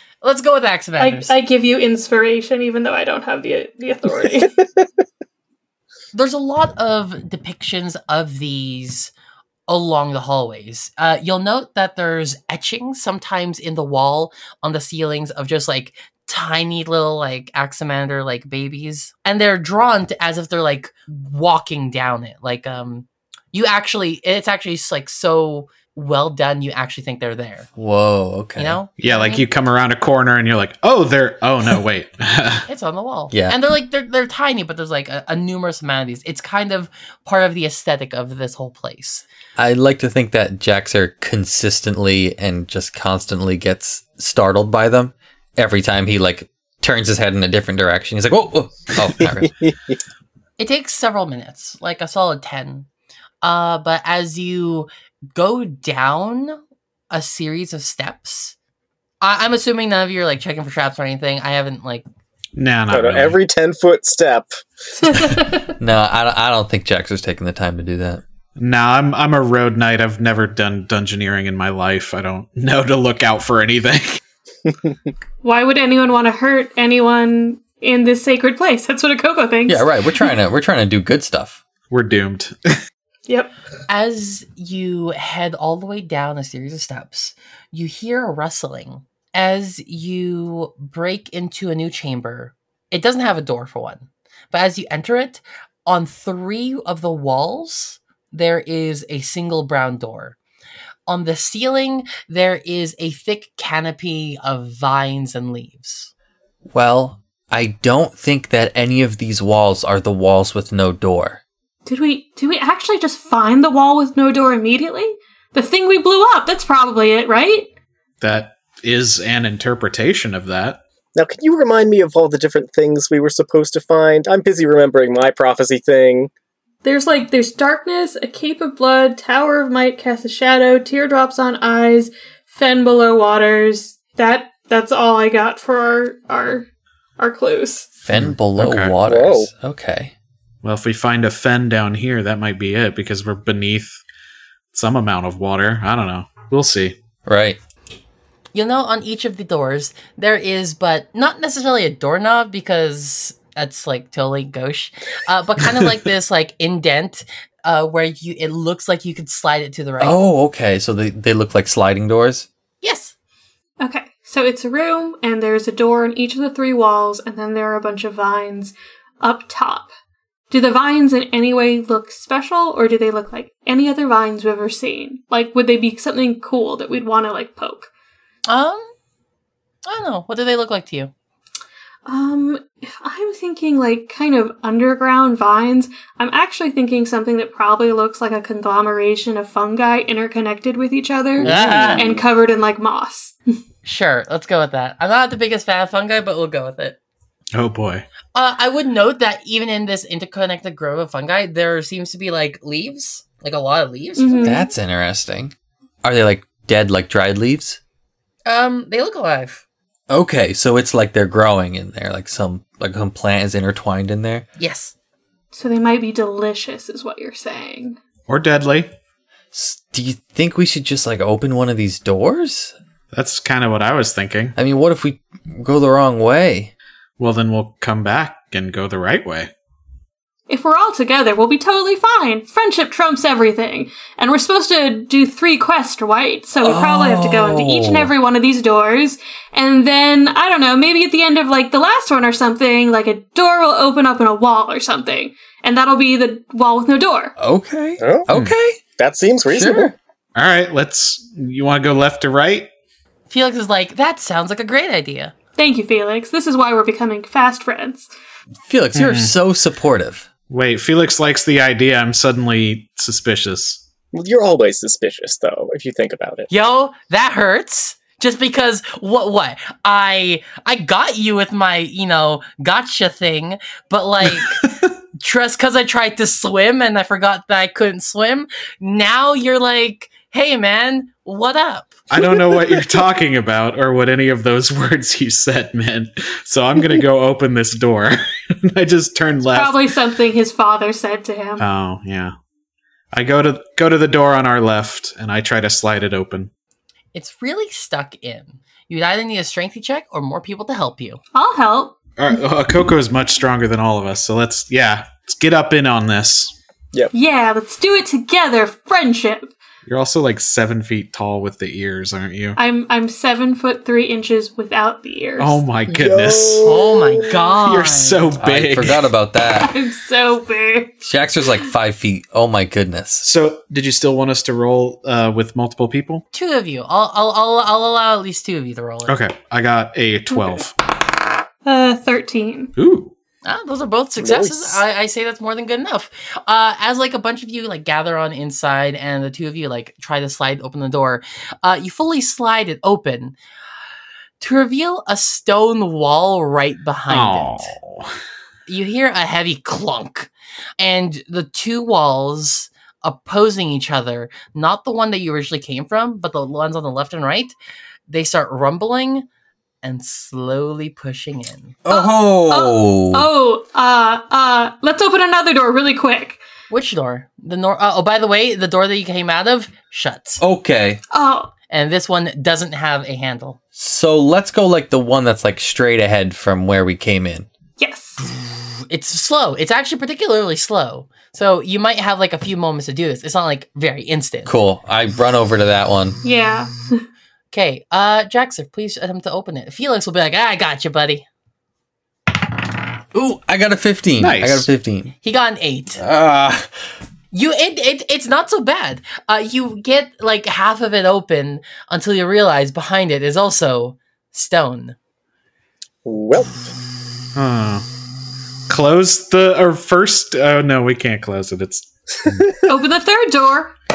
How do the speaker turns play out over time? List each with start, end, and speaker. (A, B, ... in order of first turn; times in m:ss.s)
0:00.2-0:01.3 A
0:01.0-0:04.5 B
0:04.4-0:04.9 C
0:06.1-0:09.1 A
0:09.7-0:27.7 A
0:27.8-0:28.8 D
0:28.6-0:29.4 A
0:29.0-0:32.6 E
0:32.7-0:39.2 A
0:33.3-0:33.6 D
0:39.6-0:49.5 D
0:49.2-0:50.0 C
0:50.6-0:52.9 A
0:53.4-0:56.6 A
0:57.1-0:58.6 A
0:59.2-1:02.0 A
1:02.6-1:03.4 E
1:02.9-1:04.5 C
1:05.0-1:05.7 B
1:05.8-1:08.2 D
1:08.6-1:14.2 E
1:15.4-1:20.3 B
1:19.7-1:21.6 D
1:21.9-1:22.8 E
1:23.3-1:23.5 B
1:23.9-1:40.4 A
1:41.1-1:46.1 A
1:46.7-1:51.4 D
1:51.9-1:57.7 B
1:58.2-2:00.8 E
2:01.2-2:06.3 C
2:06.8-2:16.7 B
2:17.2-2:17.9 B
2:18.0-2:20.1 D
2:18.1-2:19.0 E
2:19.0-2:19.5 C
2:20.6-2:24.0 E
2:24.7-2:27.0 E
2:27.3-2:27.6 D
2:28.5-2:40.2 A
2:40.0-2:42.5 D
2:42.8-2:43.2 A
2:43.8-2:49.9 B
2:50.5-2:57.9 B
2:58.5-2:58.9 A
2:59.9-3:01.1 A
3:02.1-3:13.4 B
3:11.4-3:12.2 C
3:11.4-3:12.1 A
3:11.4-3:12.0 D
3:13.8-3:17.0 A
3:17.5-3:18.1 E
3:18.4-3:24.6 A
3:24.2-3:24.7 B
3:24.4-3:27.8 D
3:28.5-3:29.6 A
3:30.1-3:34.5 D
3:34.6-3:34.9 A
3:35.5-3:38.0 B
3:38.3-3:38.9 E
3:39.5-3:42.8 D
3:43.1-3:44.5 E
3:44.6-3:46.7 D
3:47.2-3:49.5 E
3:50.5-4:07.3 B
3:56.6-3:58.1 D
4:07.4-4:08.8 D
4:08.0-4:08.3 C
4:09.0-4:10.0 C
4:09.5-4:09.9 D
4:10.4-4:12.7 E
4:13.3-4:15.3 A
4:15.6-4:18.1 B
4:18.7-4:20.3 D
4:19.0-4:19.3 E
4:20.5-4:23.8 E
4:24.1-4:26.5 C
4:26.5-4:34.6 A
4:34.3-4:34.7 E
4:35.2-4:42.0 A
4:42.1-4:49.8 E
4:49.5-4:51.6 B
4:51.6-4:52.4 E
4:53.1-4:56.5 E
4:57.1-5:01.2 A
5:01.3-5:02.4 B
5:02.2-5:06.6 E
5:07.1-5:09.6 B
5:09.9-5:12.6 E
5:12.6-5:15.6 B
5:15.4-5:16.6 E
5:15.9-5:17.5 C
5:16.6-5:18.4 A
5:17.6-5:19.1 E
5:18.4-5:19.7 D
5:19.5-5:21.6 B
5:21.0-5:23.3 D
5:23.2-5:26.2 E
5:26.3-5:29.2 A
5:29.1-5:30.7 E
5:30.3-5:30.6 B
5:31.6-5:32.7 B
5:32.8-5:33.1 E
5:33.4-5:43.4 A
5:34.2-5:34.8 C
5:44.4-5:47.8 A
5:47.1-5:48.1 E
5:48.7-5:57.6 A
5:58.1-5:59.3 A
5:59.8-6:01.8 A
6:01.8-6:03.3 D
6:01.9-6:06.4 B
6:06.7-6:10.4 A
6:10.4-6:11.0 D
6:11.1-6:11.5 B
6:11.7-6:13.6 A
6:13.8-6:17.5 D
6:17.8-6:18.2 B
6:18.3-6:24.5 A
6:24.5-6:26.2 D
6:26.2-6:27.0 B
6:27.5-6:31.3 A
6:33.1-6:35.1 D
6:34.2-6:34.7 E
6:35.2-6:36.0 A
6:36.0-6:36.7 D
6:37.3-6:45.0 A
6:46.0-6:46.6 C
6:47.4-6:47.9 E
6:48.7-6:52.5 E
6:52.7-6:53.8 B